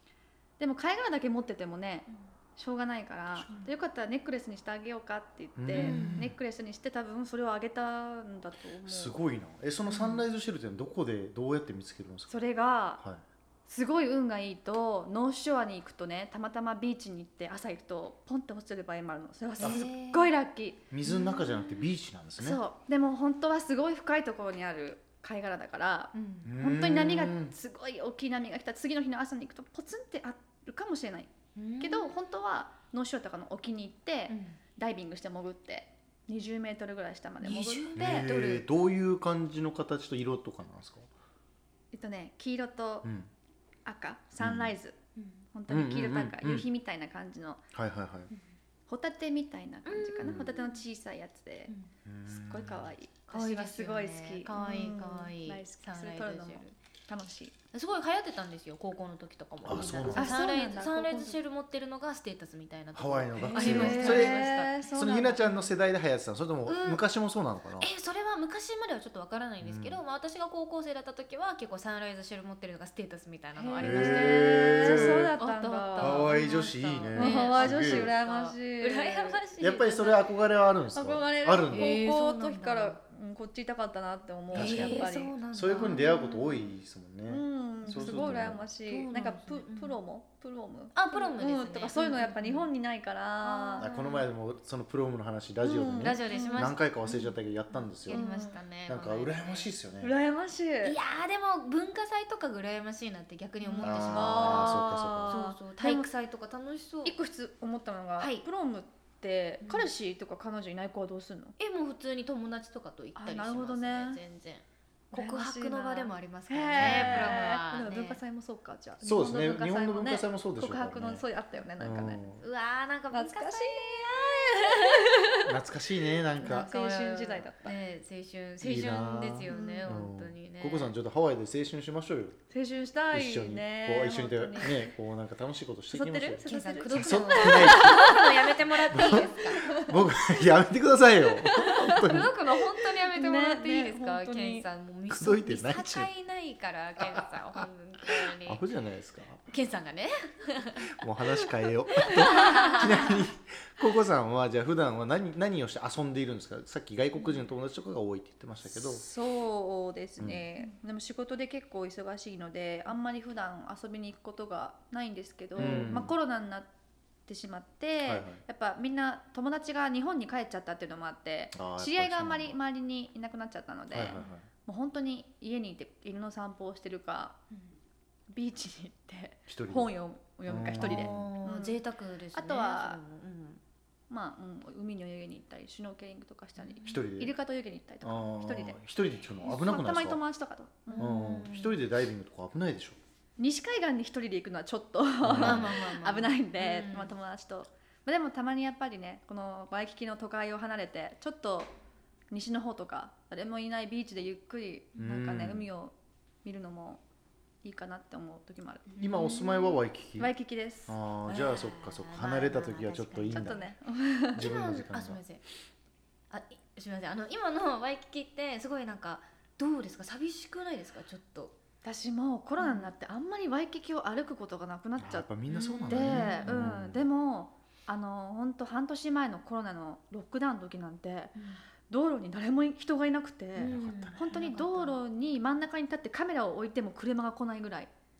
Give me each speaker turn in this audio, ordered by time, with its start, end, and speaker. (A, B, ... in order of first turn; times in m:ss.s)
0:00.6-0:09.2 A
0:03.4-0:03.7 B
0:05.6-0:06.3 C
0:05.7-0:06.3 B
0:08.8-0:12.3 C
0:09.9-0:10.2 B
0:12.3-0:13.0 A
0:13.6-0:20.8 A
0:19.6-0:20.3 B
0:19.6-0:19.8 C
0:20.9-0:22.6 C
0:21.0-0:21.9 B
0:22.4-0:38.2 A
0:26.1-0:26.5 B
0:26.4-0:27.5 C
0:31.6-0:32.2 B
0:34.3-0:34.6 B
0:37.4-0:38.7 B
0:38.0-0:41.0 C
0:41.9-0:43.1 A
0:43.8-0:45.0 A
0:44.4-0:44.7 C
0:45.2-0:45.4 B
0:45.5-0:47.6 A
0:45.7-0:46.6 C
0:47.7-0:48.3 C
0:48.9-0:51.7 A
0:49.8-0:50.8 B
0:50.2-0:50.5 C
0:52.0-0:52.9 C
0:52.2-0:57.6 A
0:53.3-0:56.6 B
0:57.7-1:05.5 B
0:59.6-1:00.4 C
1:00.1-1:01.4 A
1:02.9-1:07.9 C
1:03.5-1:05.6 A
1:06.6-1:07.0 B
1:07.8-1:20.3 B
1:09.6-1:10.0 C
1:13.6-1:16.3 A
1:13.8-1:15.3 C
1:16.0-1:18.1 C
1:17.1-1:19.4 A
1:19.6-1:22.0 C
1:20.9-1:26.0 A
1:21.7-1:23.0 B
1:24.5-1:26.7 B
1:24.5-1:28.6 C
1:27.3-1:33.8 A
1:27.8-1:30.0 B
1:30.9-1:32.7 B
1:33.4-1:34.3 B
1:33.8-1:38.2 C
1:35.6-1:36.7 A
1:36.0-1:39.7 B
1:38.1-1:38.6 A
1:38.9-1:40.2 C
1:40.0-1:40.9 A
1:40.8-1:47.2 B
1:43.6-1:46.1 A
1:43.8-1:45.4 C
1:47.0-1:51.6 A
1:48.2-1:48.4 B
1:49.6-1:49.9 B
1:51.6-1:58.2 B
1:53.2-1:54.2 A
1:55.1-2:02.2 A
1:56.8-1:57.3 C
1:59.0-2:01.2 C
2:01.8-2:02.4 C
2:02.4-2:05.2 B
2:03.1-2:05.5 A
2:05.4-2:06.7 C
2:06.4-2:07.8 A
2:06.4-2:10.9 B
2:08.6-2:12.4 C
2:09.5-2:10.0 A
2:12.5-2:14.9 A
2:13.1-2:18.1 C
2:15.9-2:20.5 A
2:16.4-2:19.7 B
2:18.9-2:22.3 C
2:21.4-2:22.2 A
2:22.0-2:28.6 B
2:23.1-2:24.6 A
2:25.1-2:26.1 C
2:27.0-2:27.6 C
2:28.2-2:29.4 C
2:29.5-2:33.2 B
2:30.9-2:39.0 C
2:37.1-2:37.5 B
2:38.7-2:46.7 A
2:45.5-2:46.0 B
2:45.6-2:46.1 C
2:47.3-2:57.4 A
2:48.0-2:48.4 C
2:51.5-2:52.6 C
2:53.9-2:54.5 C
2:58.3-3:01.8 A
2:59.5-2:59.9 C
3:00.5-3:01.3 C
3:00.8-3:03.6 B
3:02.3-3:03.0 A
3:04.1-3:08.8 A
3:06.6-3:07.0 B
3:06.8-3:07.3 C
3:08.0-3:10.2 C
3:09.4-3:11.1 A
3:10.9-3:11.8 B
3:11.0-3:13.0 C
3:13.4-3:21.7 A
3:15.2-3:15.7 C
3:15.3-3:17.1 B
3:22.3-3:27.0 A
3:25.0-3:25.7 C
3:27.6-3:28.8 A
3:28.9-3:29.8 B
3:29.0-3:30.3 C
3:30.2-3:31.0 A
3:30.9-3:33.6 C
3:31.2-3:33.7 B
3:33.3-3:34.5 A
3:34.3-3:35.2 C
3:34.3-3:35.4 B
3:36.3-3:41.5 B
3:41.8-3:45.3 A
3:42.6-3:42.9 B
3:45.0-3:47.0 C
3:45.5-3:46.6 B
3:45.9-3:51.4 A
3:51.4-3:51.6 B
3:51.9-3:57.9 A
3:53.6-3:55.0 B
3:53.7-3:54.2 C